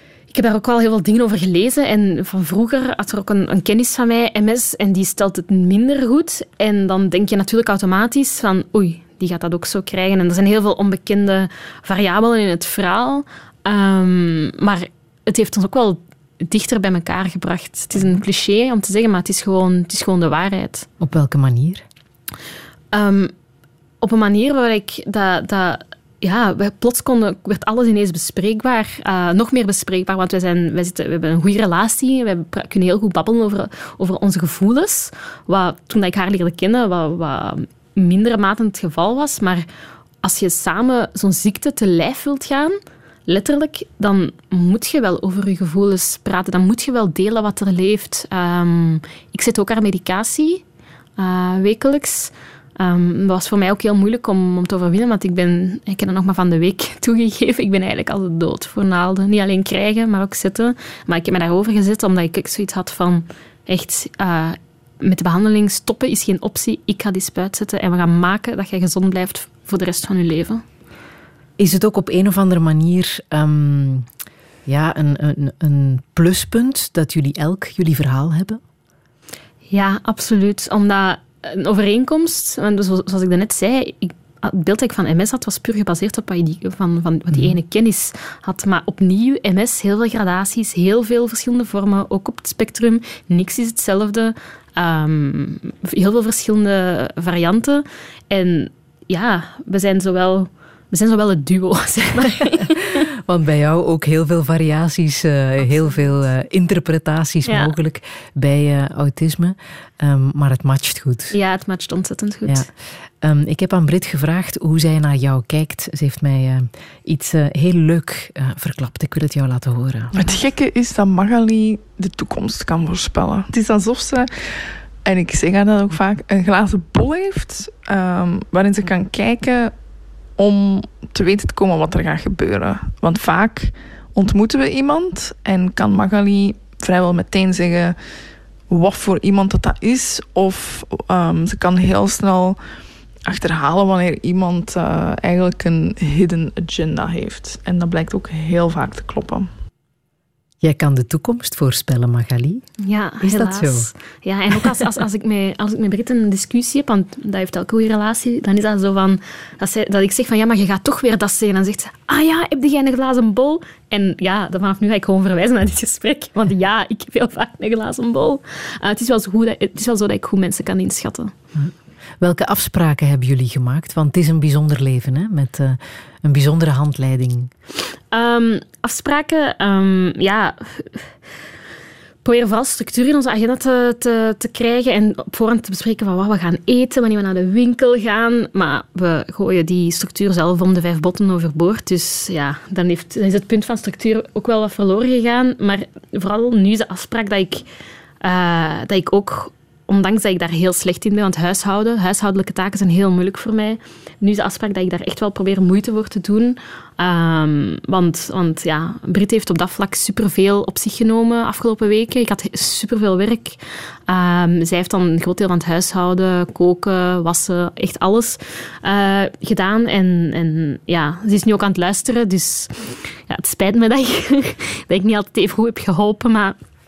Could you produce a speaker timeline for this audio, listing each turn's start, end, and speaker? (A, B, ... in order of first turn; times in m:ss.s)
0:00.3-0:20.9 A
0:21.0-0:21.8 B
0:22.9-0:23.3 A
0:24.0-0:39.6 A
0:40.2-0:42.8 A
0:43.3-0:50.6 A
0:51.2-1:10.6 A
1:11.6-1:14.1 B
1:14.6-1:18.6 B
1:19.7-1:43.0 A
1:43.2-1:51.4 B
1:47.4-1:47.7 A
1:51.3-1:52.7 A
1:53.2-2:00.1 B
2:00.2-2:18.1 C
2:18.7-2:22.6 C
2:23.2-2:29.5 C
2:30.6-2:32.7 B
2:32.8-2:51.3 A
2:33.2-2:33.9 B
2:51.5-2:57.5 B
2:58.1-3:01.1 A
3:02.2-3:17.6 A
3:18.2-3:46.6 A